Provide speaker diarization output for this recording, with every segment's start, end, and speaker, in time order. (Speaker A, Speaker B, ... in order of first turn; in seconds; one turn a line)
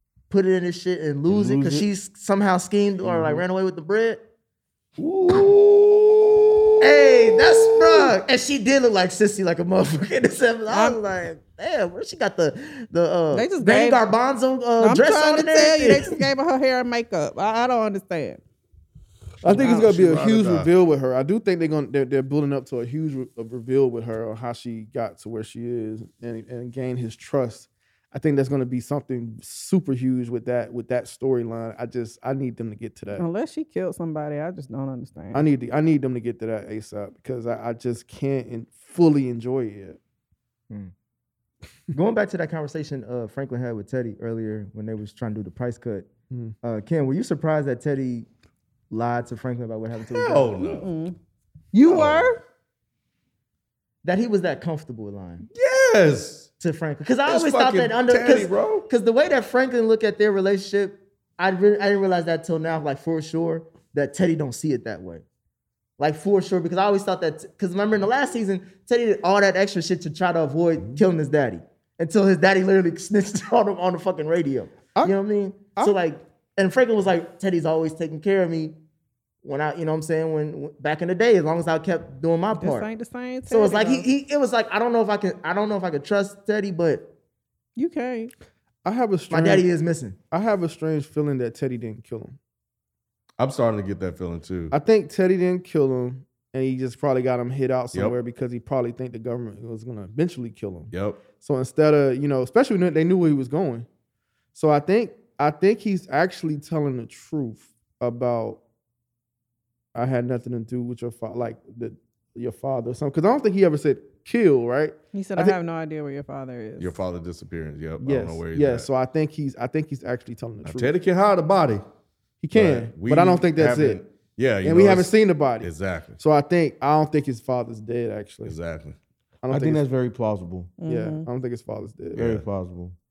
Speaker A: 0.3-4.2
Speaker B: 1.3-1.9
Speaker B: 3.0-3.4
Speaker B: 5.0-8.1
Speaker A: 6.8-16.2
Speaker C: 10.7-11.0
Speaker C: 13.3-14.0
Speaker C: 14.8-18.4
Speaker D: 19.4-33.2
Speaker C: 19.5-19.9
Speaker E: 19.5-20.7
Speaker C: 33.1-35.5
Speaker D: 35.3-40.0
Speaker A: 41.9-46.1
Speaker A: 46.6-48.3
Speaker A: 48.9-50.5
Speaker E: 50.1-50.9
Speaker C: 50.6-51.1
Speaker C: 51.7-52.3
Speaker E: 51.9-52.3
Speaker A: 54.0-55.5
Speaker E: 55.5-56.5
Speaker A: 56.6-65.2
Speaker E: 57.2-58.9
Speaker A: 66.0-78.8
Speaker A: 79.4-82.9
Speaker C: 82.6-84.0
Speaker A: 83.5-87.1
Speaker C: 87.8-88.3
Speaker D: 88.8-89.7
Speaker A: 89.3-90.2
Speaker D: 90.3-92.3
Speaker E: 93.4-94.7
Speaker D: 94.7-103.8
Speaker E: 100.9-101.2
Speaker D: 104.5-108.6
Speaker D: 109.9-115.6
Speaker C: 115.1-117.0
Speaker E: 116.8-118.9
Speaker D: 118.0-120.9
Speaker E: 120.6-121.8
Speaker D: 122.4-124.0
Speaker E: 122.5-126.2
Speaker D: 124.6-128.6
Speaker E: 128.4-128.9
Speaker D: 129.4-129.8
Speaker B: 129.5-130.7
Speaker C: 130.8-131.3
Speaker D: 130.8-132.2
Speaker E: 132.2-132.4
Speaker B: 132.2-132.9